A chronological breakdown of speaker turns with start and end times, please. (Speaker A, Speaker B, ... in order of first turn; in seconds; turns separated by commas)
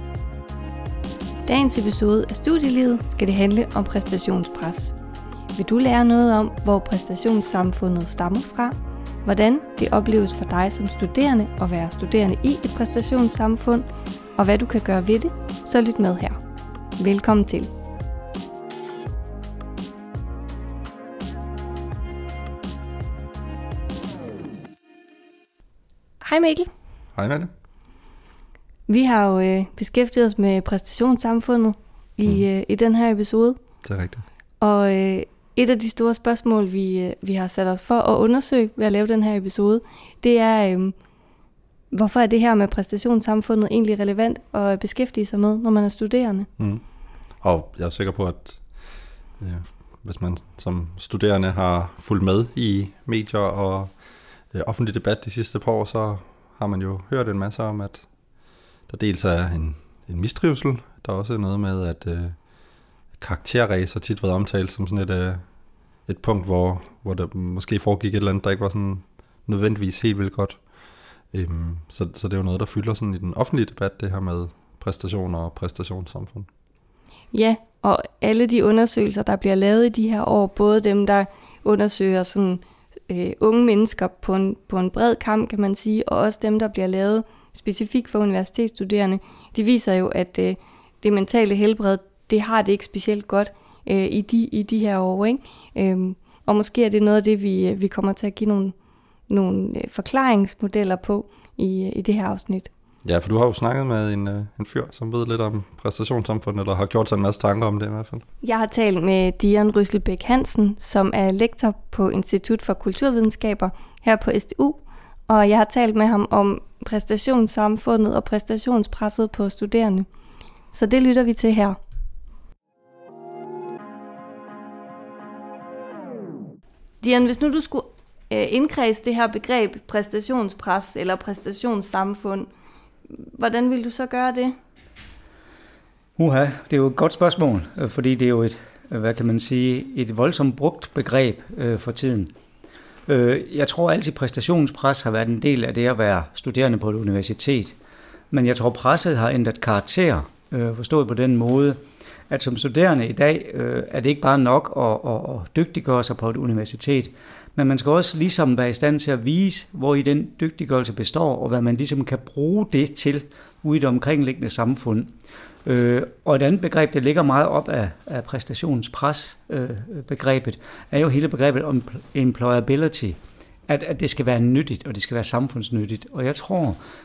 Speaker A: 1.5-4.9, Speaker A: 5.5-13.8, Speaker A: 14.4-16.4, Speaker A: 17.0-17.7, Speaker A: 26.2-26.7, Speaker B: 27.1-27.5, Speaker A: 28.9-33.6, Speaker B: 33.8-34.2, Speaker A: 34.6-41.0, Speaker A: 41.9-46.5, Speaker B: 46.6-46.8, Speaker B: 47.4-48.6, Speaker B: 49.4-53.9, Speaker B: 54.5-58.0, Speaker B: 58.9-62.4, Speaker B: 63.2-65.4, Speaker B: 66.1-70.6, Speaker B: 71.3-76.5, Speaker A: 77.3-98.8, Speaker A: 99.3-102.7, Speaker B: 103.0-108.2, Speaker A: 108.4-120.1, Speaker A: 120.7-121.8, Speaker A: 127.0-132.5, Speaker A: 133.1-134.6, Speaker C: 136.2-142.3, Speaker C: 143.1-147.8, Speaker C: 148.3-151.8, Speaker C: 152.3-165.1, Speaker C: 165.7-173.2, Speaker C: 173.7-176.8